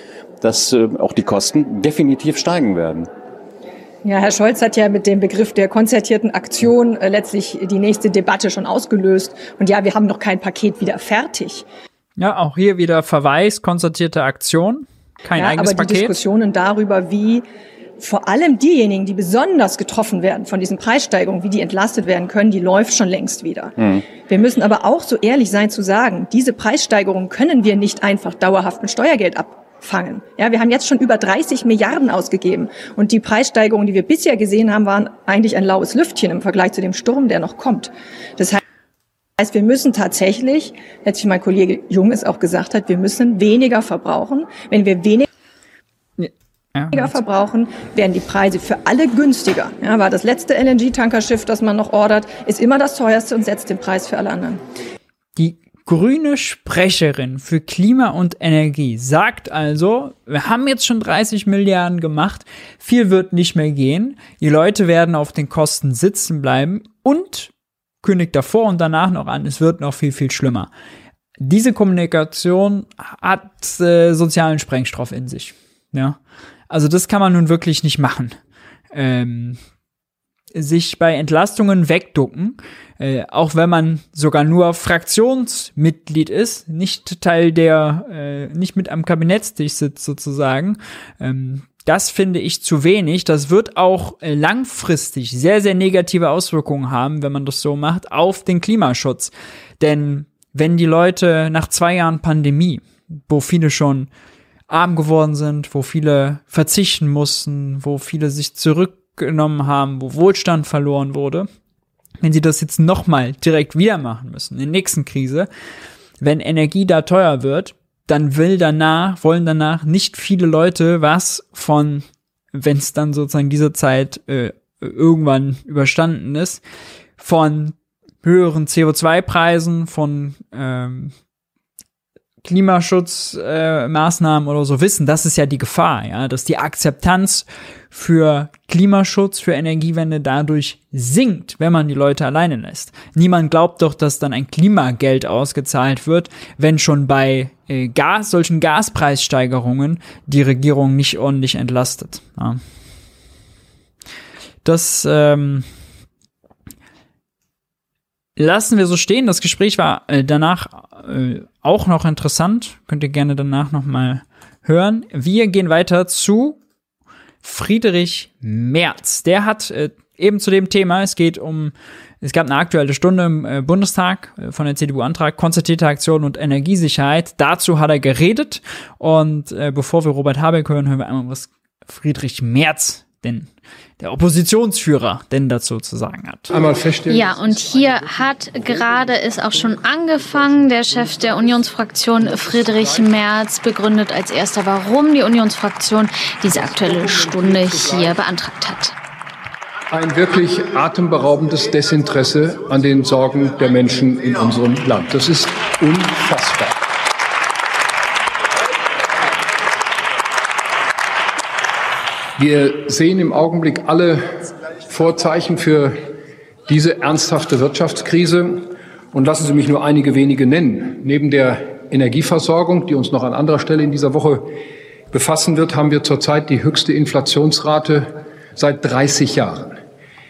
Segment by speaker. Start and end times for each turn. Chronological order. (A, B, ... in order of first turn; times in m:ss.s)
0:00.4-0:03.1 A
0:04.0-0:11.6 B
0:12.2-0:16.1 C
0:15.3-0:17.4 B
0:18.0-0:38.6 B
0:39.4-0:45.2 B
0:46.2-0:47.1 C
0:46.9-0:54.6 B
0:55.4-1:10.7 C
1:11.4-1:16.2 C
1:16.7-1:18.4 C
1:18.9-1:19.6 C
1:20.5-1:44.1 C
1:44.7-1:51.5 C
1:52.2-1:55.5 C
1:56.2-2:06.6 C
2:07.2-2:11.1 C
2:12.4-2:32.6 C
2:34.6-2:35.7 C
2:38.4-2:46.6 C
2:47.4-3:06.5 C
3:06.5-3:08.0 D
3:07.1-3:18.9 E
3:19.9-3:26.8 D
3:32.4-3:36.0 D
3:36.7-3:44.5 D
3:45.1-3:49.8 D